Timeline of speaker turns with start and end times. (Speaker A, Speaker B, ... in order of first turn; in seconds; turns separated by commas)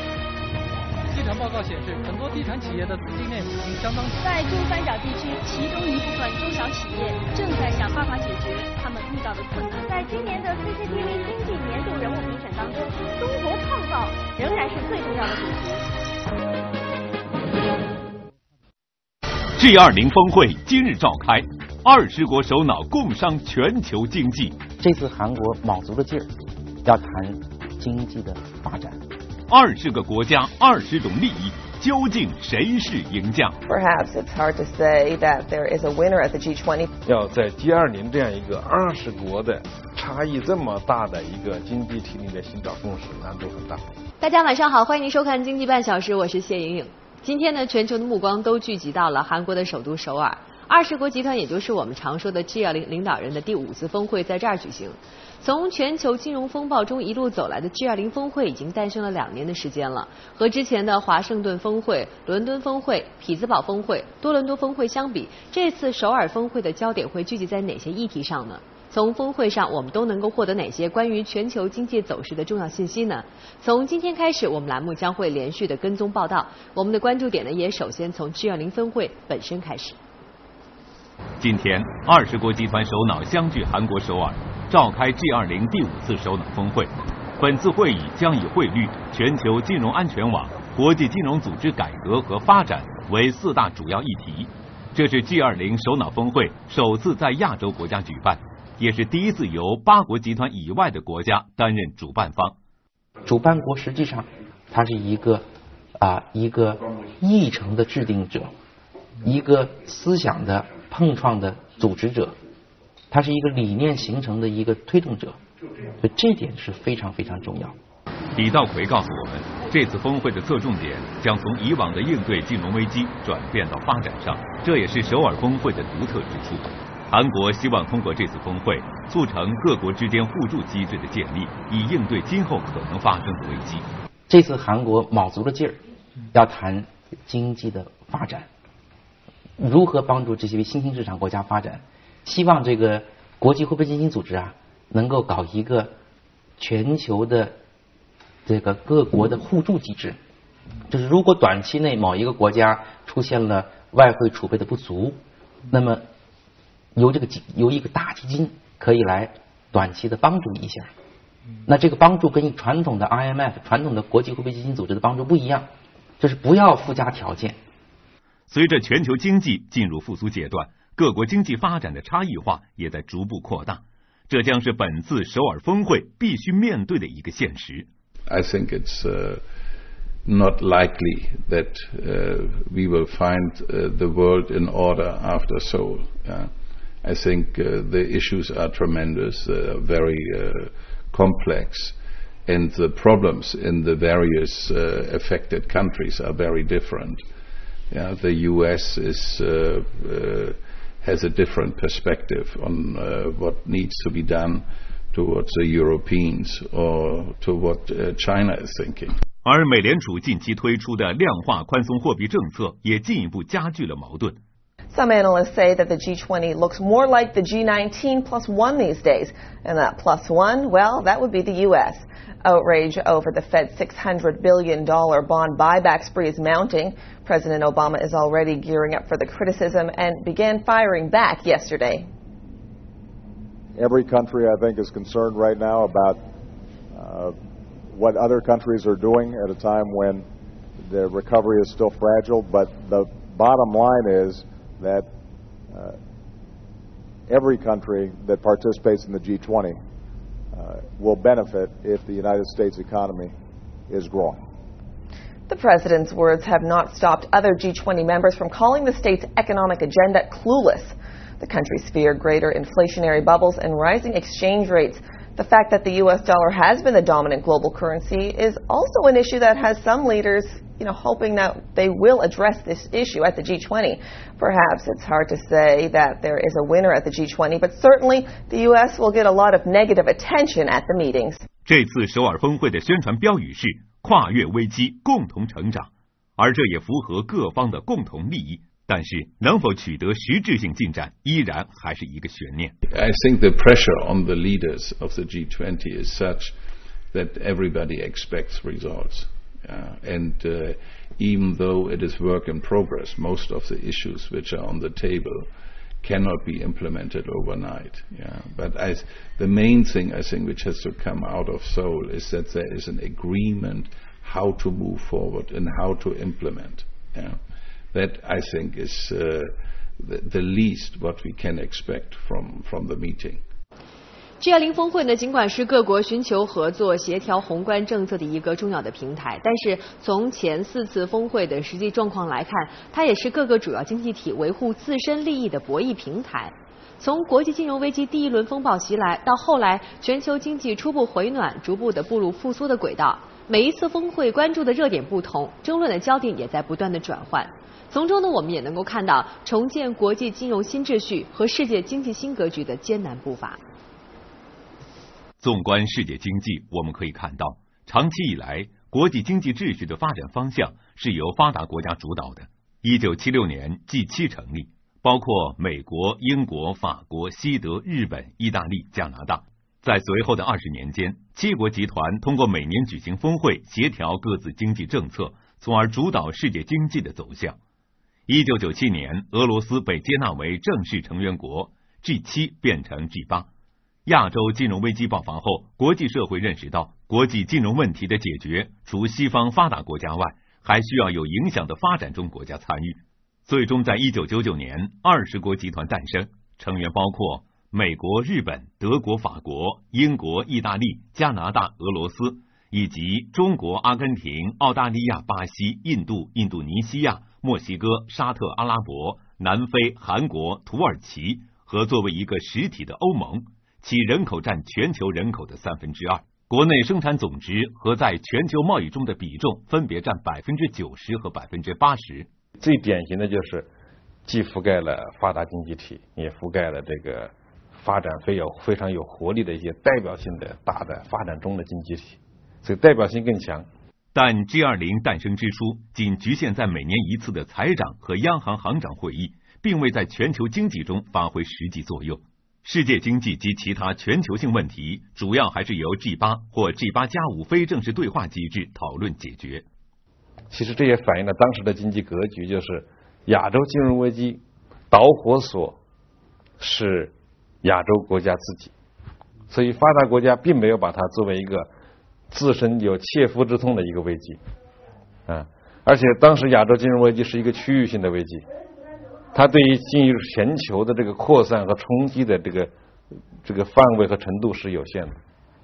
Speaker A: 1.1-4.2, Speaker B: 4.2-15.8, Speaker C: 19.6-24.6, Speaker D: 24.8-29.0, Speaker C: 29.5-33.6, Speaker E: 33.7-36.9, Speaker F: 37.0-44.0, Speaker G: 44.2-80.0, Speaker C: 81.4-102.6, Speaker D: 103.2-105.5, Speaker D: 106.0-108.5, Speaker D: 109.2-112.4, Speaker D: 113.1-115.4, Speaker D: 116.0-117.8, Speaker C: 118.4-133.9, Speaker D: 134.3-135.8, Speaker D: 136.3-138.5, Speaker D: 139.6-145.9, Speaker D: 146.6-147.6, Speaker D: 148.5-150.2, Speaker D: 150.9-155.2, Speaker D: 155.7-156.1, Speaker D: 156.9-160.9, Speaker D: 161.7-165.7, Speaker D: 166.2-167.6, Speaker C: 168.5-177.9, Speaker H: 178.3-179.4, Speaker H: 180.3-186.5, Speaker H: 187.0-197.2, Speaker H: 197.9-209.2, Speaker C: 209.4-214.4, Speaker E: 214.9-232.1, Speaker I: 233.8-236.2, Speaker I: 236.9-237.3, Speaker I: 237.9-240.3, Speaker I: 240.9-245.1, Speaker I: 245.7-246.0, Speaker I: 247.3-249.8, Speaker I: 250.5-253.3, Speaker I: 253.9-254.4, Speaker E: 255.5-281.4, Speaker C: 281.6-292.8, Speaker H: 292.9-296.6, Speaker H: 297.1-305.5, Speaker H: 306.0-317.4, Speaker H: 317.9-323.4, Speaker G: 324.4-353.6, Speaker C: 355.4-377.6, Speaker C: 378.3-383.5, Speaker C: 384.1-422.3, Speaker F: 422.6-423.7, Speaker F: 424.3-433.7, Speaker C: 434.1-449.6, Speaker F: 450.5-455.8, Speaker F: 456.6-458.7, Speaker F: 459.5-461.7, Speaker F: 462.3-464.4, Speaker F: 465.3-468.5, Speaker F: 469.3-472.7, Speaker F: 473.4-475.2